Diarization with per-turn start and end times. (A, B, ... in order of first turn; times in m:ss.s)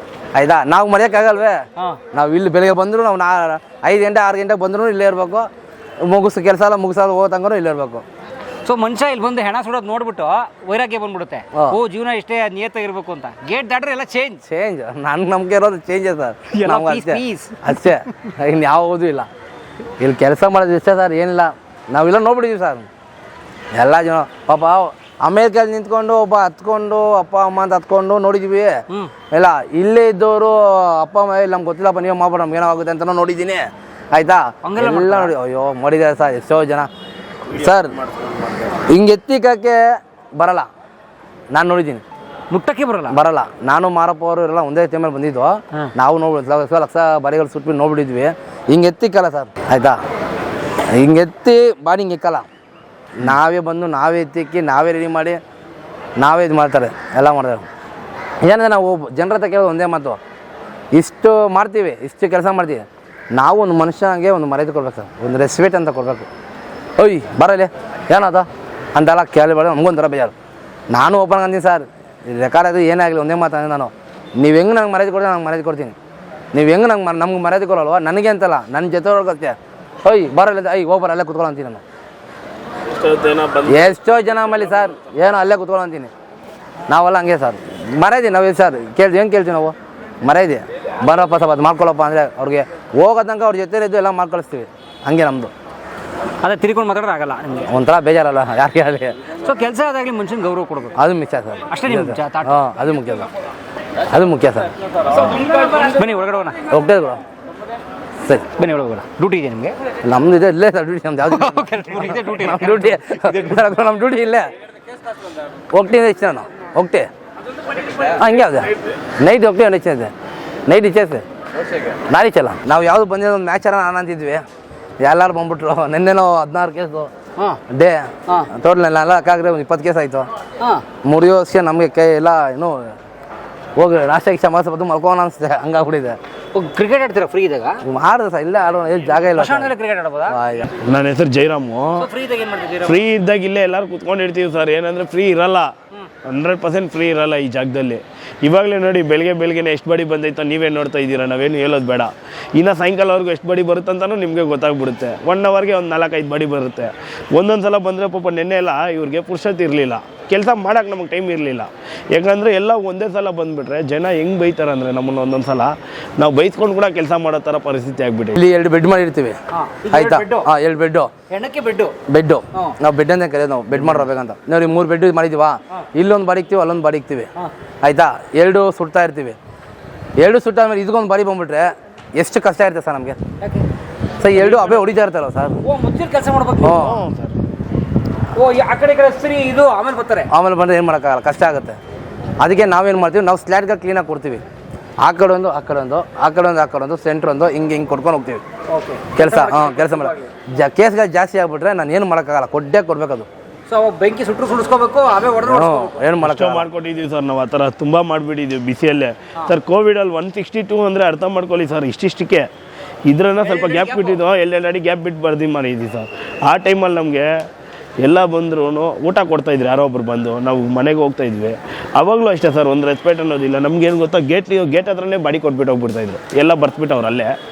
0:00.3-0:05.5 A
0:06.0-0:08.0 A
0:08.6-0:14.4 B
0:14.4-0:19.3 A
0:16.5-0:17.6 B
0:20.0-0:22.9 A
0:23.7-0:28.8 A
0:29.3-0:36.9 A
0:34.6-0:35.3 B
0:37.5-0:38.0 A
0:37.6-0:38.8 C
0:38.8-0:40.7 A
0:41.5-0:42.0 A
0:42.5-0:43.2 B
0:43.1-0:50.0 A
0:50.9-0:52.5 A
0:53.2-0:55.4 A
0:56.2-0:57.7 A
0:58.4-1:00.2 A
1:00.9-1:06.2 A
1:07.0-1:10.3 A
1:10.9-1:15.9 A
1:16.5-1:21.8 A
1:22.9-1:24.0 C
1:23.7-1:26.1 A
1:26.9-1:35.5 A
1:36.4-1:37.7 B
1:37.7-1:39.2 A
1:39.3-1:41.0 B
1:40.9-1:43.3 A
1:41.7-1:42.6 B
1:44.1-1:44.7 A
1:45.1-1:46.6 B
1:46.7-1:47.2 A
1:48.6-1:49.8 B
1:50.0-1:54.5 A
1:51.3-1:53.6 B
1:55.7-1:57.1 A
1:58.0-2:00.1 A
2:00.7-2:01.2 A
2:02.1-2:04.4 A
2:05.0-2:07.1 A
2:07.7-2:10.3 A
2:11.0-2:12.9 A
2:13.8-2:16.2 A
2:16.5-2:17.8 B
2:17.8-2:19.7 A
2:19.4-2:20.4 B
2:20.3-2:20.7 A
2:20.8-2:22.0 C
2:22.0-2:23.0 B
2:22.8-2:25.7 C
2:26.2-2:48.4 C
2:48.4-2:49.4 A
2:49.5-2:50.5 B
2:49.9-2:51.1 A
2:51.3-2:52.0 B
2:52.1-2:57.3 A
2:57.8-2:59.4 A
3:00.2-3:03.2 A
3:03.4-3:03.6 B
3:04.2-3:05.6 A
3:04.3-3:04.8 C
3:05.6-3:06.8 B
3:06.6-3:07.0 A
3:06.6-3:07.4 C
3:08.3-3:10.3 B
3:10.3-3:11.8 A
3:12.4-3:14.4 A
3:15.0-3:18.4 A
3:18.7-3:20.3 B
3:19.1-3:23.3 A
3:23.7-3:26.1 B
3:25.4-3:26.7 A
3:26.2-3:32.5 C
3:33.1-3:37.4 C
3:33.4-3:34.2 B
3:38.0-3:47.3 C